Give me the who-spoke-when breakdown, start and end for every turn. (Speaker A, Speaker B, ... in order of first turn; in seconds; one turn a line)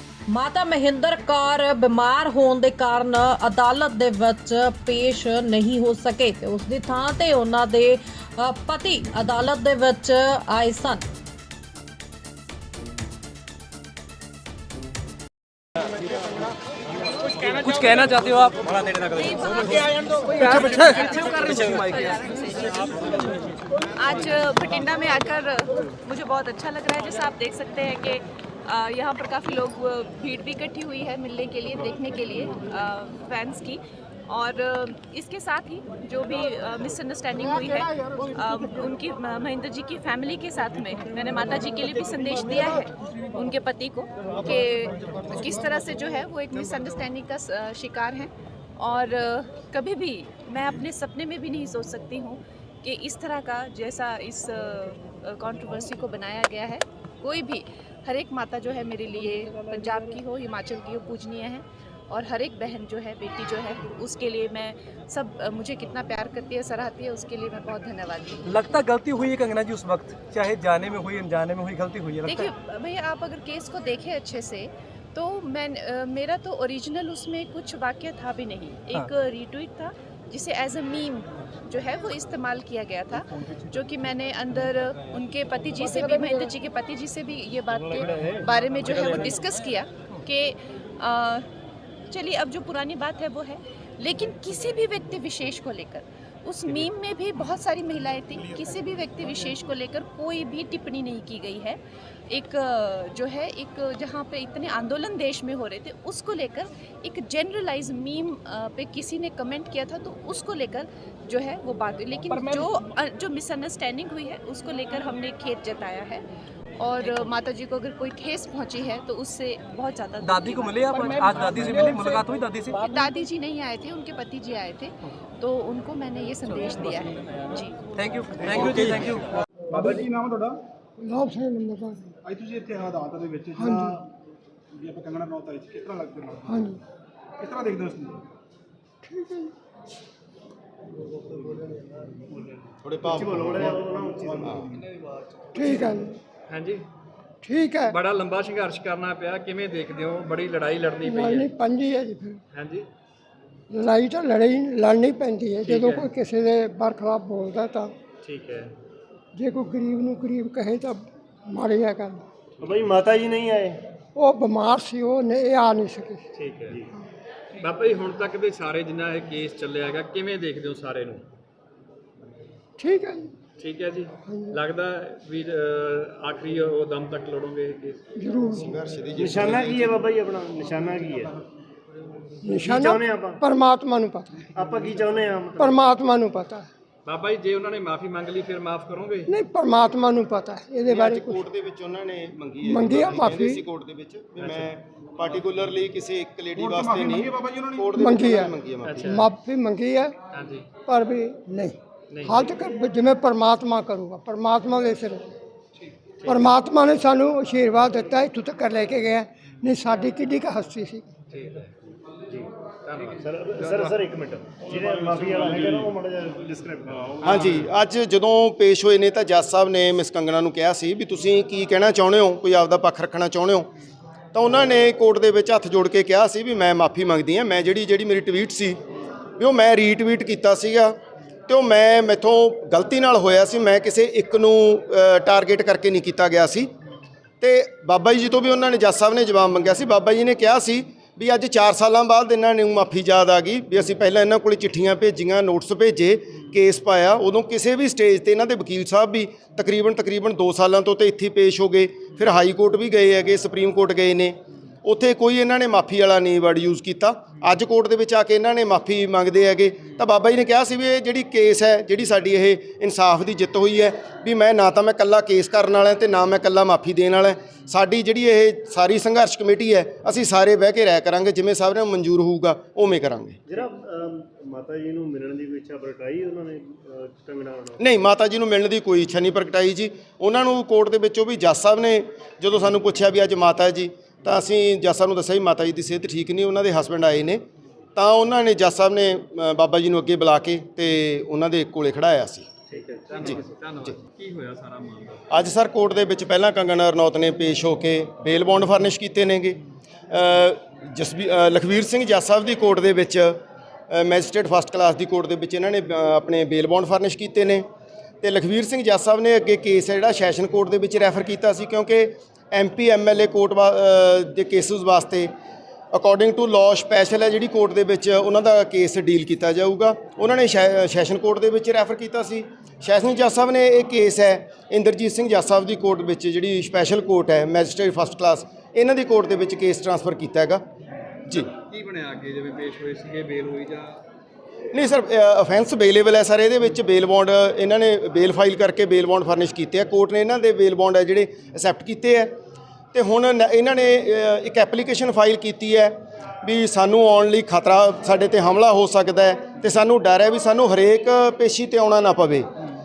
Speaker A: 0.3-11.0
Speaker B: 17.5-19.3
Speaker C: 19.1-23.3
Speaker B: 20.3-22.3
Speaker C: 23.9-68.7
Speaker B: 68.4-72.5
Speaker C: 72.2-91.5
Speaker C: 92.1-116.2
Speaker C: 116.8-121.8
Speaker B: 120.2-122.8
Speaker C: 122.8-127.8
Speaker B: 128.0-129.2
Speaker D: 128.4-128.9
Speaker D: 129.7-130.6
Speaker E: 131.0-132.0
Speaker D: 132.2-134.1
Speaker E: 133.6-133.9
Speaker D: 134.7-136.7
Speaker E: 136.5-136.8
Speaker D: 137.4-138.2
Speaker E: 139.1-139.5
Speaker F: 142.8-143.8
Speaker G: 143.1-144.5
Speaker D: 143.2-144.8
Speaker F: 144.4-144.7
Speaker H: 144.9-145.7
Speaker E: 145.5-146.2
Speaker H: 146.5-146.8
Speaker E: 147.4-147.9
Speaker H: 147.8-151.5
Speaker E: 151.1-152.4
Speaker H: 152.5-152.9
Speaker E: 153.7-157.9
Speaker H: 155.6-156.1
Speaker H: 158.2-158.7
Speaker E: 159.3-162.2
Speaker G: 162.6-163.9
Speaker E: 164.2-166.2
Speaker H: 166.3-166.9
Speaker H: 167.5-171.3
Speaker E: 172.8-173.3
Speaker H: 173.6-178.0
Speaker E: 174.3-174.5
Speaker E: 178.2-178.7
Speaker F: 178.5-180.0
Speaker G: 179.2-181.3
Speaker D: 179.5-179.9
Speaker D: 180.7-181.3
Speaker E: 182.4-184.4
Speaker G: 182.6-183.4
Speaker G: 184.5-185.8
Speaker D: 184.6-185.3
Speaker E: 185.6-186.7
Speaker H: 187.0-189.3
Speaker E: 189.3-191.4
Speaker F: 190.9-199.1
Speaker E: 192.6-193.6
Speaker H: 194.4-194.7
Speaker D: 196.6-197.9
Speaker E: 198.0-200.1
Speaker H: 198.8-199.3
Speaker H: 200.3-200.7
Speaker E: 200.9-205.2
Speaker H: 202.1-202.5
Speaker H: 206.0-206.5
Speaker E: 206.2-211.1
Speaker H: 211.3-211.7
Speaker H: 212.8-214.0
Speaker G: 213.2-217.1
Speaker H: 214.7-215.9
Speaker H: 217.0-217.7
Speaker F: 217.2-223.7
Speaker F: 224.3-228.8
Speaker F: 229.4-231.0
Speaker F: 231.5-236.7
Speaker F: 237.4-273.4
Speaker G: 273.6-277.8
Speaker F: 277.8-287.4
Speaker F: 287.9-292.5
Speaker H: 292.7-295.4
Speaker F: 293.2-293.9
Speaker F: 295.3-307.6
Speaker F: 308.2-315.3
Speaker F: 315.9-330.6
Speaker H: 331.3-334.0
Speaker F: 334.7-342.4
Speaker F: 342.9-352.5